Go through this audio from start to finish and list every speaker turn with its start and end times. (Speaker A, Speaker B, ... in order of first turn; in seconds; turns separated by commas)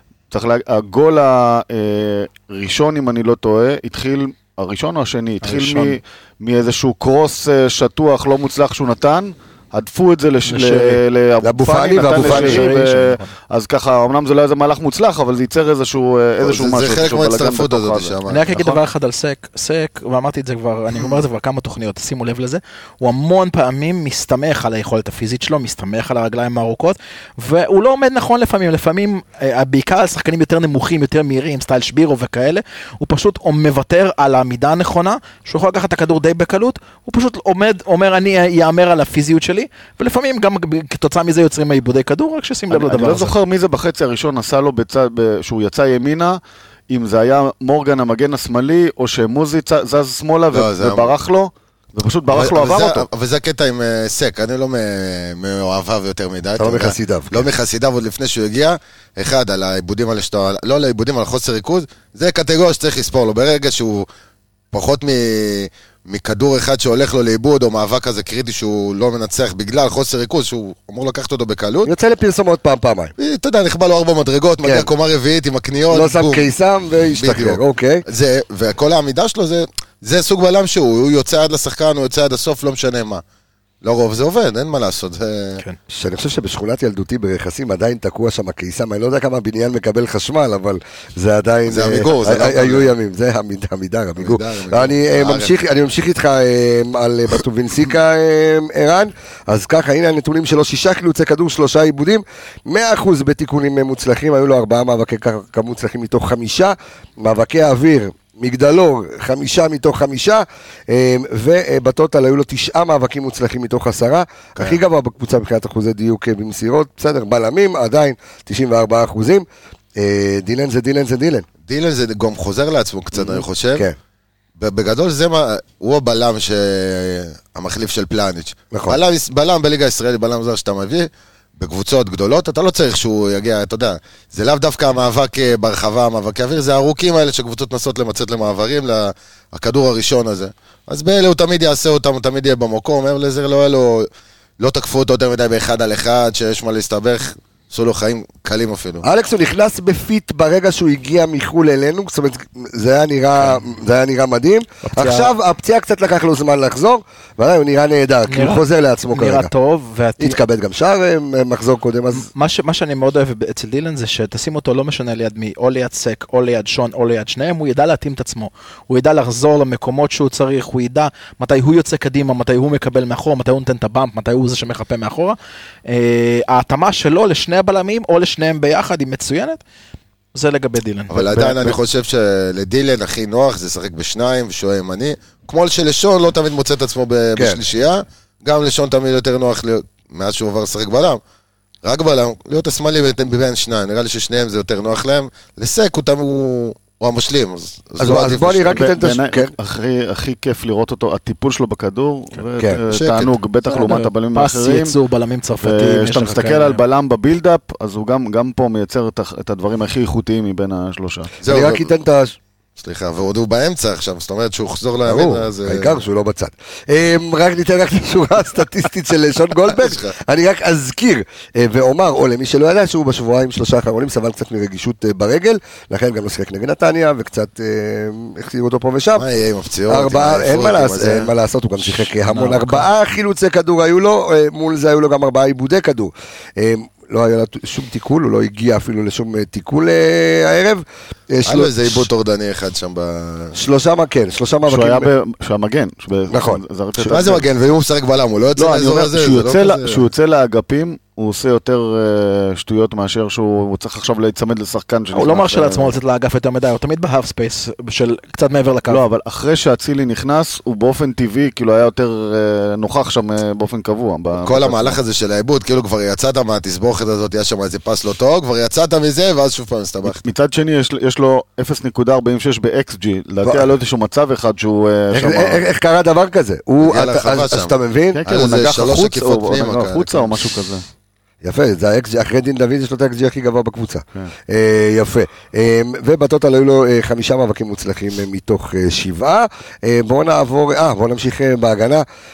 Speaker A: 0.3-18.8, Speaker B: 5.4-6.0, Speaker B: 10.5-11.0, Speaker C: 11.4-12.7, Speaker B: 12.1-13.3, Speaker D: 16.4-18.5, Speaker B: 18.3-43.3, Speaker A: 42.7-53.1, Speaker D: 50.5-51.1, Speaker D: 52.3-64.1, Speaker C: 56.5-57.5, Speaker D: 64.7-71.9, Speaker C: 71.8-73.1, Speaker D: 73.2-76.5, Speaker C: 74.6-74.9, Speaker C: 75.9-78.0, Speaker D: 77.2-83.2, Speaker D: 83.8-85.6, Speaker C: 85.9-119.4, Speaker D: 91.7-92.9, Speaker D: 94.2-95.5, Speaker C: 120.0-121.5, Speaker D: 121.7-123.8, Speaker C: 123.1-124.0, Speaker D: 124.6-144.1, Speaker C: 128.7-129.0, Speaker D: 144.6-149.0, Speaker C: 149.0-159.5, Speaker B: 154.8-155.3, Speaker B: 158.3-160.4, Speaker C: 160.2-162.3, Speaker B: 162.1-179.6, Speaker B: 180.3-181.7, Speaker D: 181.1-191.2, Speaker C: 187.3-187.6, Speaker D: 191.8-198.8, Speaker C: 198.0-199.5, Speaker A: 198.7-204.9, Speaker D: 202.9-203.3, Speaker B: 203.7-206.8, Speaker A: 205.6-211.3, Speaker D: 211.4-211.9, Speaker C: 211.4-212.4, Speaker D: 212.8-216.0, Speaker C: 215.0-229.2, Speaker D: 219.8-220.1, Speaker D: 229.2-231.3, Speaker C: 229.9-242.1, Speaker B: 232.2-232.9, Speaker D: 241.4-243.6, Speaker C: 243.5-245.1, Speaker A: 244.7-247.4, Speaker C: 246.3-247.2, Speaker D: 247.1-250.0, Speaker A: 248.5-255.9, Speaker B: 255.1-259.0, Speaker A: 258.9-265.0, Speaker D: 264.3-270.3, Speaker A: 270.0-275.6, Speaker C: 273.4-273.7, Speaker C: 275.1-278.2, Speaker D: 276.8-277.7, Speaker A: 278.1-280.8, Speaker D: 278.2-280.3, Speaker C: 281.4-292.0